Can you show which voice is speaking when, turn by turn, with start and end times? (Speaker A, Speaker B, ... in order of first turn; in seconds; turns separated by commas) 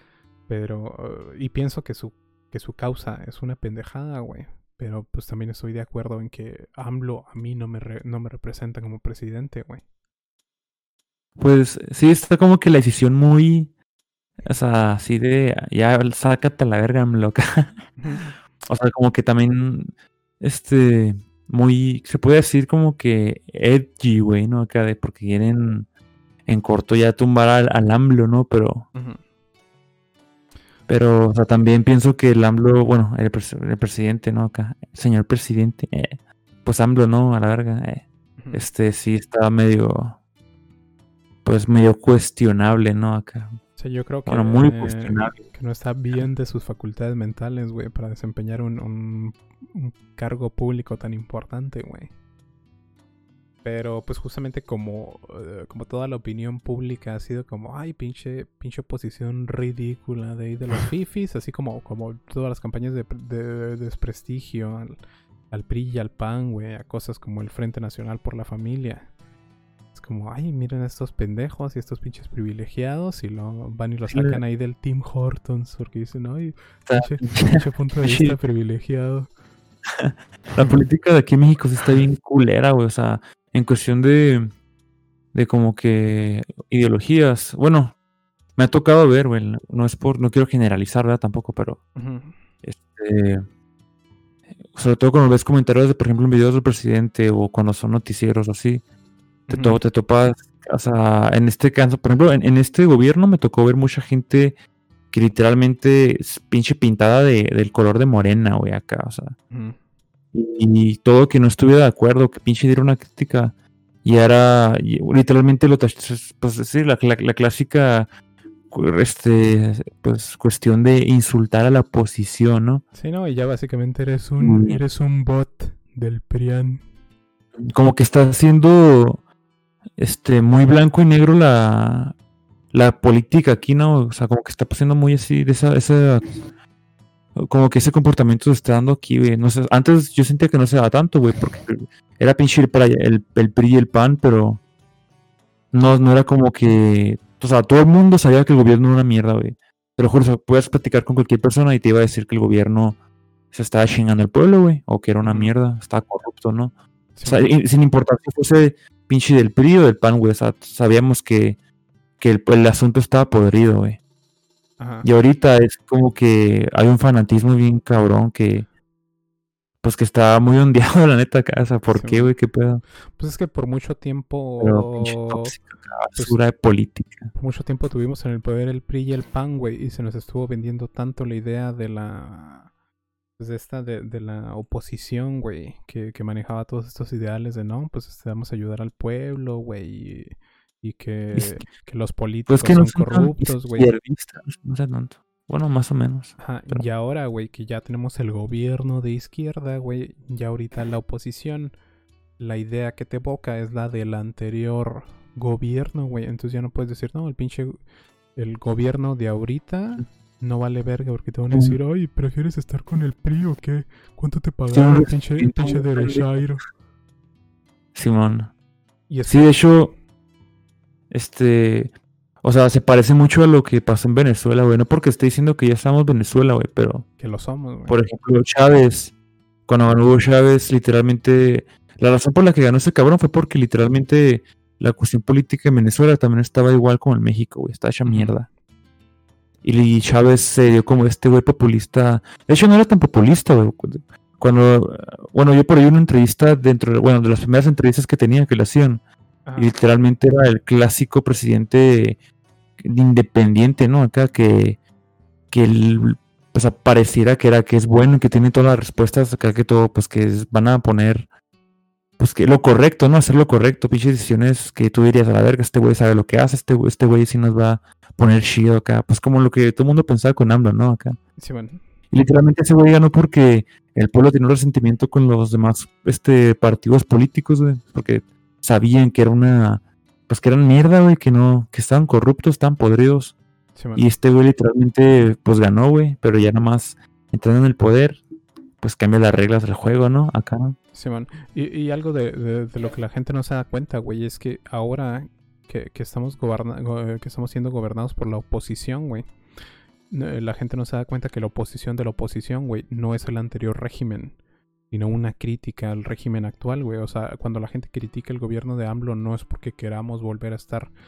Speaker A: 0.5-9.8, Speaker B: 11.4-13.7, Speaker B: 14.4-17.9, Speaker A: 18.0-18.3, Speaker B: 18.7-25.9, Speaker B: 26.5-28.9, Speaker A: 28.9-29.2, Speaker B: 30.9-40.2, Speaker B: 41.4-43.6, Speaker A: 43.8-52.1, Speaker B: 44.2-45.4, Speaker A: 53.6-65.0, Speaker A: 65.5-69.1, Speaker A: 69.9-79.3, Speaker B: 74.1-74.4, Speaker B: 76.9-78.3, Speaker B: 80.0-84.5, Speaker B: 85.3-87.9, Speaker B: 88.5-91.8, Speaker A: 92.0-92.4, Speaker B: 92.6-93.5, Speaker B: 94.7-98.8, Speaker B: 99.5-104.5, Speaker A: 99.5-99.8, Speaker B: 105.1-109.4, Speaker A: 109.5-109.8, Speaker B: 110.3-118.1, Speaker B: 118.7-122.8, Speaker A: 123.0-126.8, Speaker B: 124.4-124.8, Speaker B: 127.6-129.2, Speaker B: 130.0-132.1, Speaker B: 132.7-136.4, Speaker B: 137.4-144.6, Speaker B: 145.7-153.0, Speaker B: 153.5-156.7, Speaker A: 155.2-155.5, Speaker A: 157.2-157.5, Speaker B: 157.2-161.6, Speaker B: 162.2-164.0, Speaker A: 164.8-165.1, Speaker B: 165.0-168.7, Speaker B: 169.8-172.8, Speaker A: 171.9-172.3, Speaker A: 173.2-175.5, Speaker B: 174.6-177.3, Speaker A: 177.3-182.7, Speaker A: 183.4-193.9, Speaker B: 191.3-191.6, Speaker B: 192.5-196.8, Speaker A: 196.4-201.7, Speaker A: 202.4-207.8, Speaker A: 208.3-216.6, Speaker B: 214.7-216.4, Speaker B: 217.9-218.5, Speaker A: 219.1-219.7, Speaker B: 219.3-219.9, Speaker B: 221.1-221.9, Speaker B: 222.4-227.1, Speaker A: 227.2-228.0, Speaker B: 227.9-229.1, Speaker B: 229.7-238.5, Speaker A: 238.1-238.4, Speaker B: 239.6-249.0, Speaker A: 249.4-249.7, Speaker B: 249.6-252.2, Speaker B: 252.8-254.8, Speaker B: 255.5-261.3, Speaker B: 262.2-271.2, Speaker A: 271.4-271.8, Speaker B: 272.1-283.4, Speaker A: 283.8-284.0, Speaker B: 283.9-288.2, Speaker B: 288.8-290.8, Speaker A: 290.9-299.3, Speaker A: 300.1-304.4, Speaker A: 304.9-310.9